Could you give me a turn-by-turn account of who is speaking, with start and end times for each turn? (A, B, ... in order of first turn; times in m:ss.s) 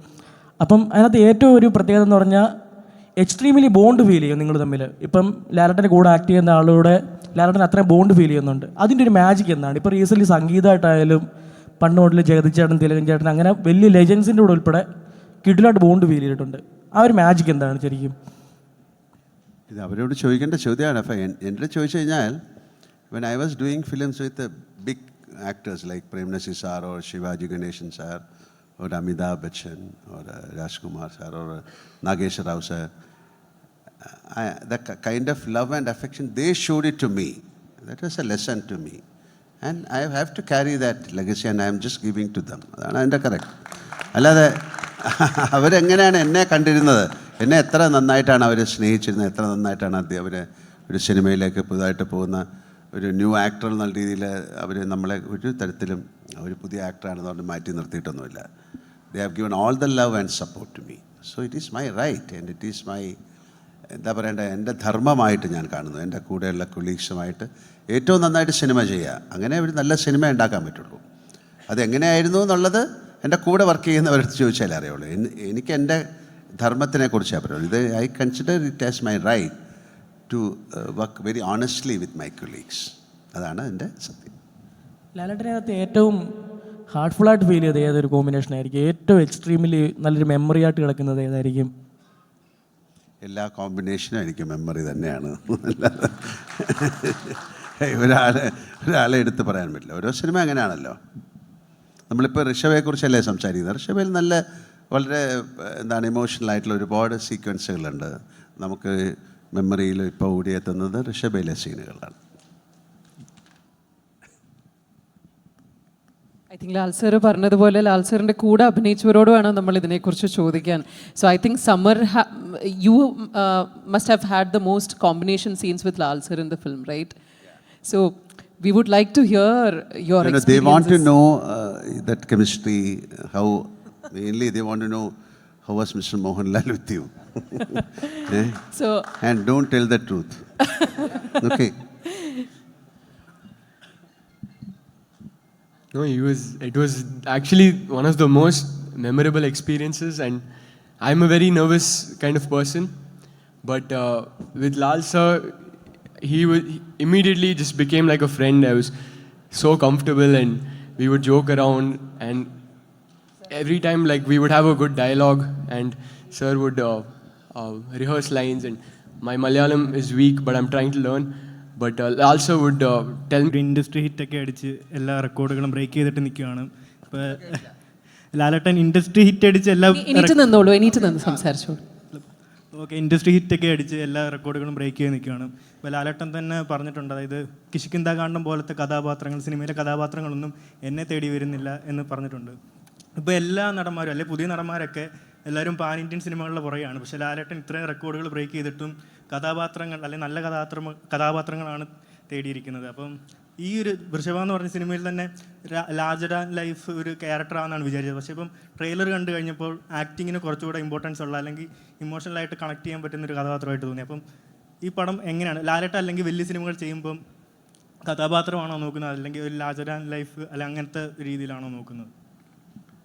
0:00.6-0:02.4 A
0:03.2-0:11.2 A
0:11.8-0:14.8 A
0:15.4-0:18.1 A
0:19.7-0:22.4 B
0:23.1-0:28.2 B
0:28.8-0:32.9 B
0:34.1-0:39.0 B
0:39.6-0:43.6 B
0:44.1-0:58.4 B
0:59.1-1:03.1 B
1:03.9-1:11.0 B
1:11.7-1:16.0 B
1:16.6-1:19.5 B
1:20.3-1:24.3 B
1:25.1-1:26.2 A
1:26.9-1:31.7 A
1:33.2-1:41.0 B
1:42.1-1:52.2 B
1:56.5-2:07.2 C
2:07.8-2:11.1 C
2:10.2-2:15.1 B
2:15.6-2:17.6 B
2:18.2-2:18.6 B
2:18.7-2:19.1 C
2:19.2-2:20.6 B
2:20.7-2:21.2 C
2:21.4-2:21.7 B
2:22.0-2:22.4 C
2:25.9-2:53.5 D
2:53.5-2:57.6 E
2:58.3-3:00.3 E
2:59.9-3:01.8 C
3:02.1-3:12.6 E
3:13.2-3:34.2 E
3:34.8-3:37.2 E
3:38.1-3:42.1 E